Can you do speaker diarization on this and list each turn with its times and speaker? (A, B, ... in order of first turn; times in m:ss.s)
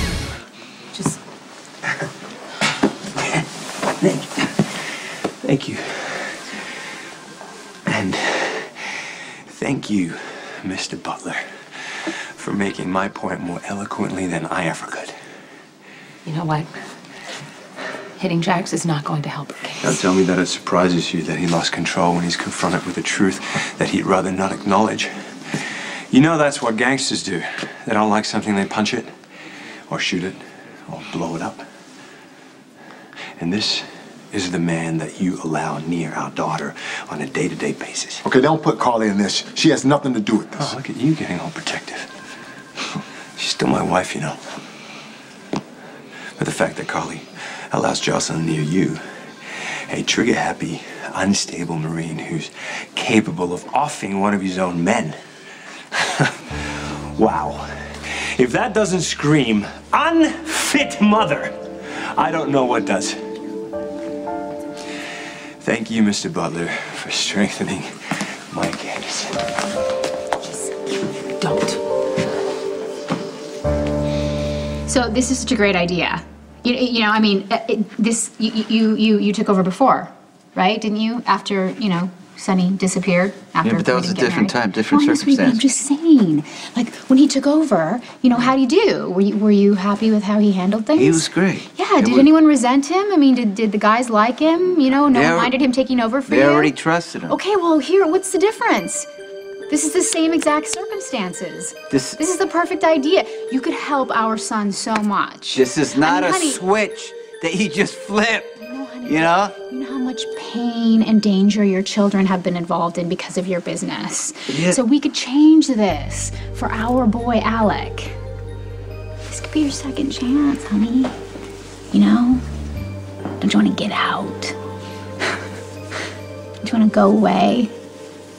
0:04.0-0:04.5 A
0:05.4-0:06.5 A
0:07.9-0:15.1 A
0:16.3-0:16.7 B
0:18.2-0:20.0 B
0:19.8-0:25.1 A
0:25.7-0:29.1 A
0:29.9-0:31.6 A
0:33.4-0:38.2 A
0:38.2-0:40.8 C
0:40.6-0:42.1 A
0:43.4-0:44.4 A
0:46.4-0:49.0 A
0:49.9-0:55.2 A
0:55.9-1:01.5 A
1:02.2-1:03.2 A
1:05.6-1:09.4 A
1:11.4-1:11.8 B
1:14.9-1:39.1 D
1:23.6-1:25.6 E
1:31.0-1:32.3 E
1:35.1-1:35.5 E
1:36.3-1:37.4 E
1:39.7-1:46.6 D
1:41.9-1:42.2 E
1:45.5-1:48.5 E
1:48.6-1:58.2 D
1:49.0-1:49.5 E
1:54.5-1:54.8 E
1:59.3-2:01.2 D
2:01.9-2:02.4 D
2:03.4-2:04.6 D
2:06.6-2:07.7 D